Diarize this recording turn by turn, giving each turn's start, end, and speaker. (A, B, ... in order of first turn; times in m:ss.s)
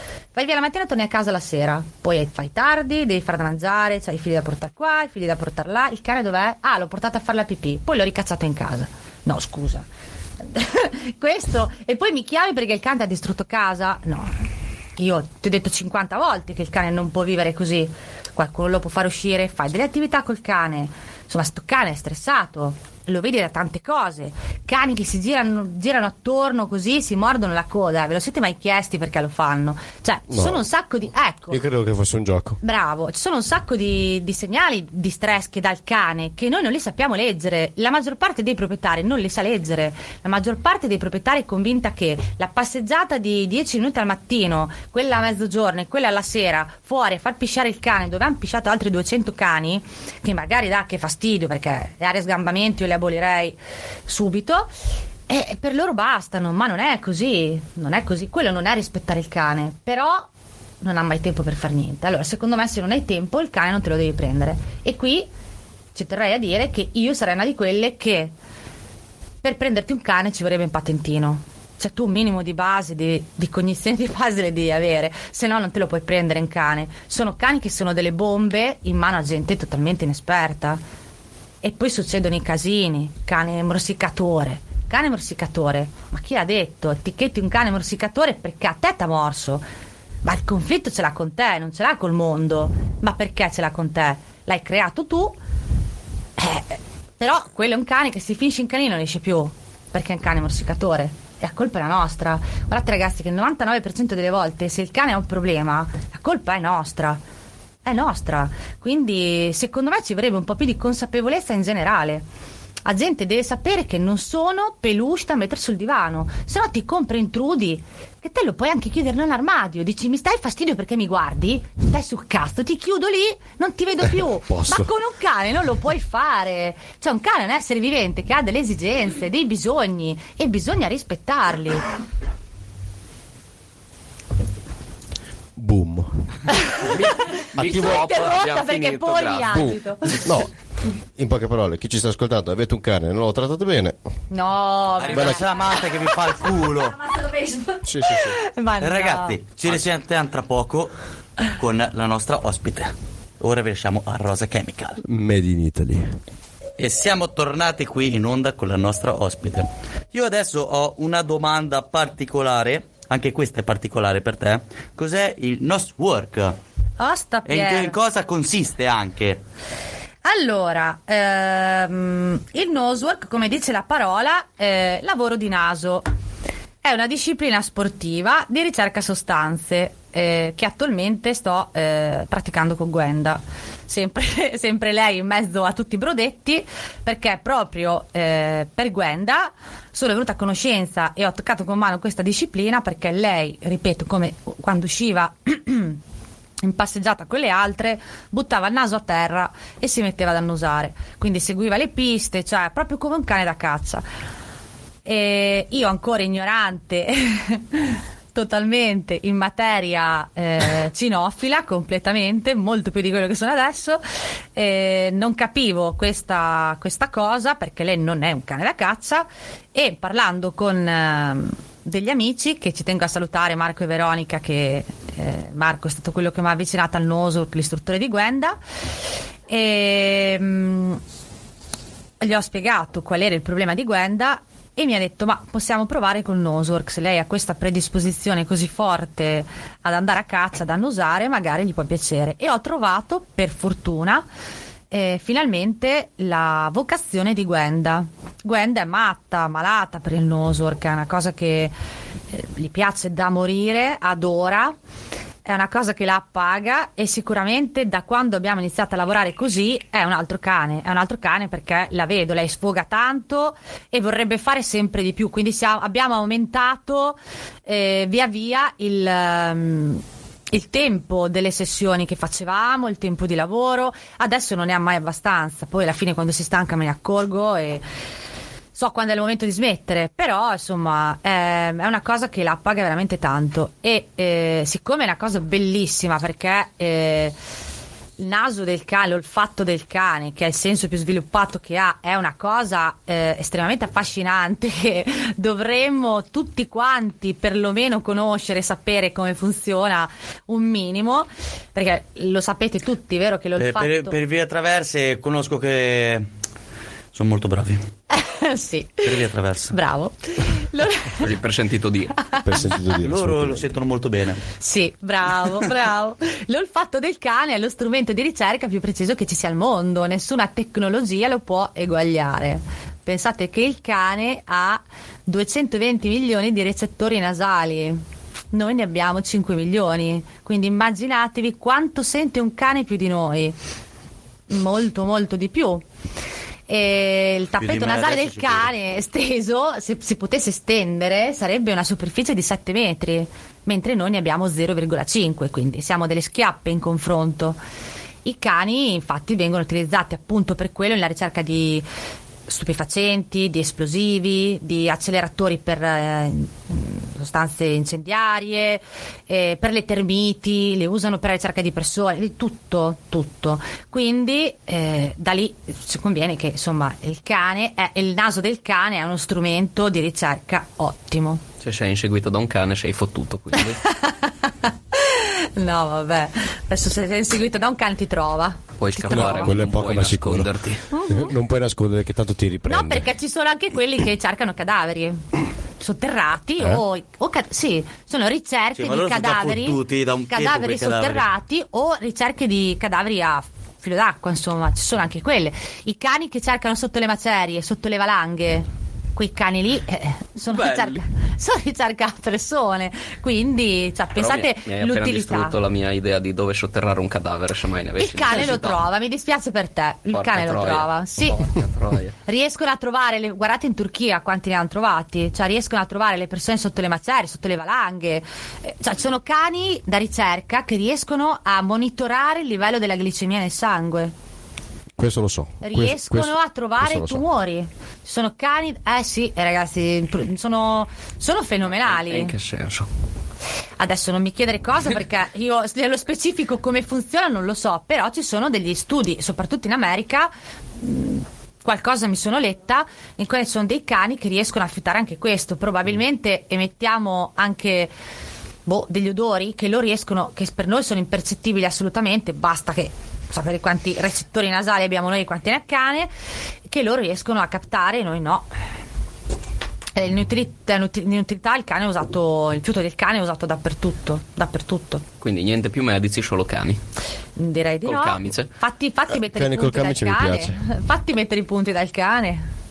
0:00.3-0:09.9 A
0:10.4-0:14.3 A
0:15.0-0:31.6 A
0:30.3-0:30.6 B
0:31.5-0:32.6 B
0:32.6-0:54.7 A
0:55.3-1:00.3 A
1:00.8-1:05.3 A
1:06.0-1:08.3 A
1:09.4-1:20.8 A
1:21.6-1:29.6 A
1:30.2-1:35.4 A
1:36.4-1:47.2 A
1:47.8-1:52.2 A
1:52.8-2:11.9 A
2:04.0-2:04.9 B
2:15.6-2:16.5 B
2:16.8-2:19.7 C
2:17.6-2:18.1 B
2:17.6-2:20.3 A
2:19.5-2:20.5 B
2:21.2-2:24.0 B
2:24.3-2:25.5 A
2:25.0-2:27.0 D
2:25.1-2:25.4 B
2:27.2-2:29.4 A
2:27.8-2:28.4 B
2:28.8-2:30.9 D
2:31.5-2:35.0 D
2:35.0-2:36.2 B
2:36.8-2:46.6 D
2:47.0-2:48.0 A
2:47.5-2:49.4 D
2:50.2-2:56.1 A
2:56.8-3:16.0 A
3:16.6-3:24.0 A
3:25.0-3:34.0 A
3:34.6-3:48.6 A
3:49.5-3:51.0 A
3:52.2-4:04.2 A
4:04.9-4:11.7 A
4:12.3-4:14.8 A
4:15.4-4:37.8 A
4:38.8-4:47.4 A
4:48.2-5:04.2 A
5:03.6-5:06.3 D
5:07.1-5:07.8 D
5:08.1-5:11.3 A
5:09.0-5:09.8 D
5:11.1-5:12.2 C
5:12.4-5:13.7 B
5:13.0-5:14.4 D
5:14.6-5:33.6 A
5:34.5-5:35.8 A
5:36.7-5:47.6 A
5:37.6-5:38.7 D
5:48.2-5:51.9 A
5:52.5-6:11.4 A
6:11.6-6:13.8 C
6:13.8-6:19.6 A
6:18.8-6:20.9 C
6:19.1-6:20.5 B
6:20.9-6:21.3 A
6:21.1-6:23.1 B
6:22.7-6:25.2 A
6:25.8-6:45.6 A
6:26.6-6:26.8 B
6:28.8-6:31.2 D
6:40.5-6:41.0 C
6:44.2-6:48.9 C
6:48.0-6:51.6 A
6:50.1-6:52.2 C
6:52.3-7:04.1 A
7:05.0-7:07.2 B
7:05.6-7:12.4 A
7:11.8-7:12.9 C
7:13.8-7:27.9 A
7:28.7-7:36.1 A
7:36.7-7:38.5 A
7:40.0-7:45.0 A
7:45.2-7:46.8 C
7:47.4-7:52.4 A
7:47.8-7:48.5 C
7:49.1-7:50.6 B